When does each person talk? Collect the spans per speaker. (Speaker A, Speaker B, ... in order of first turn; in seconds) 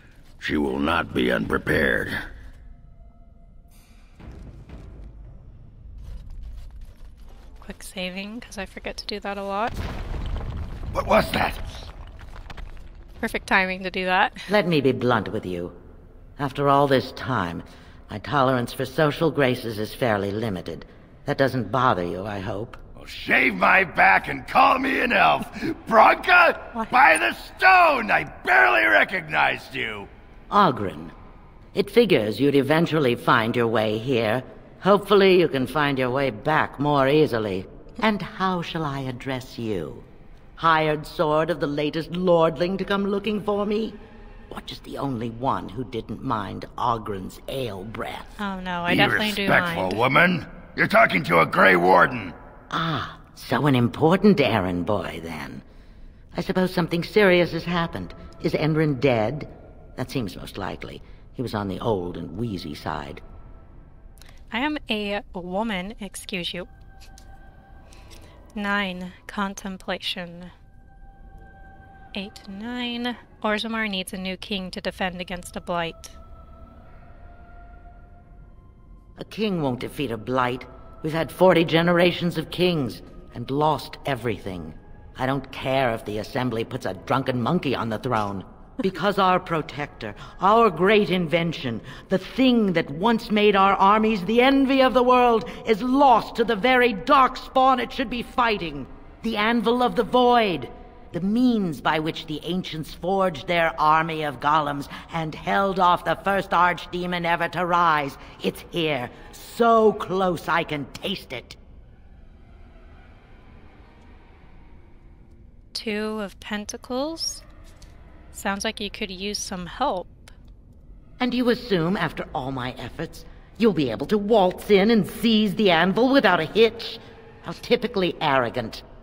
Speaker A: 0.4-2.1, 10.9-11.6, 23.0-30.1, 48.9-52.4
Speaker B: 7.6-9.8, 13.2-14.5, 48.4-50.0, 64.5-66.7, 68.6-70.5, 72.1-76.2, 115.7-117.4, 118.3-120.3
Speaker C: 14.5-15.8, 16.4-22.8, 30.5-31.1, 31.7-44.0, 44.5-48.4, 52.7-55.6, 56.3-63.2, 79.2-111.6, 121.2-128.8